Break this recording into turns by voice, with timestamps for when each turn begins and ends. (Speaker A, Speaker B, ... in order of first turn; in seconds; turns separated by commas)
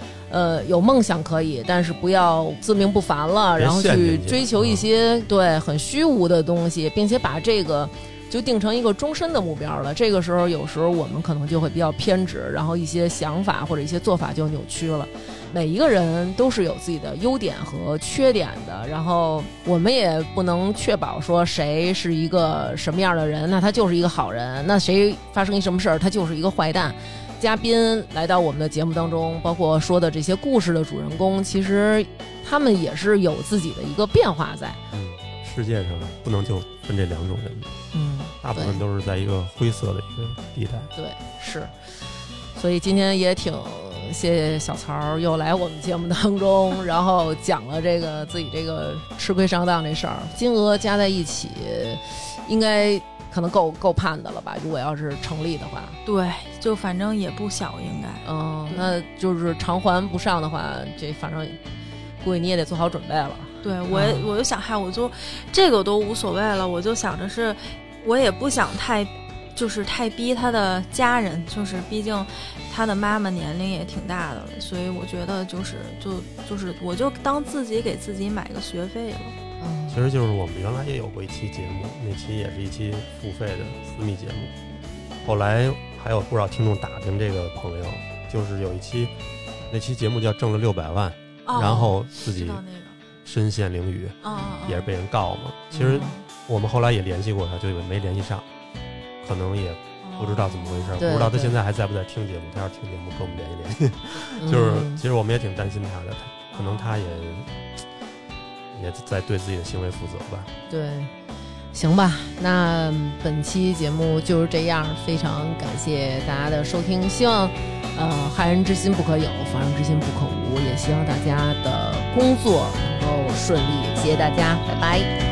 Speaker A: 0.3-34.8, Speaker B: 3.6-4.9, Speaker B: 34.9-37.7, Speaker A: 37.9-38.8, Speaker B: 38.4-40.9, Speaker A: 41.0-41.7, Speaker A: 42.5-56.0, Speaker C: 56.1-58.9, Speaker A: 58.2-61.6, Speaker A: 62.2-64.3, Speaker C: 63.6-79.3, Speaker A: 79.6-80.0, Speaker B: 79.9-84.5, Speaker B: 85.2-89.1, Speaker B: 89.7-92.6, Speaker C: 91.5-93.0, Speaker B: 93.2-98.5, Speaker C: 94.2-94.9, Speaker A: 95.7-96.1, Speaker C: 95.9-96.2, Speaker B: 99.2-107.6, Speaker C: 100.0-101.1, Speaker A: 101.0-101.5, Speaker A: 104.4-105.0, Speaker C: 106.5-107.0, Speaker B: 108.7-110.5, Speaker A: 110.7-111.1, Speaker A: 111.7-125.1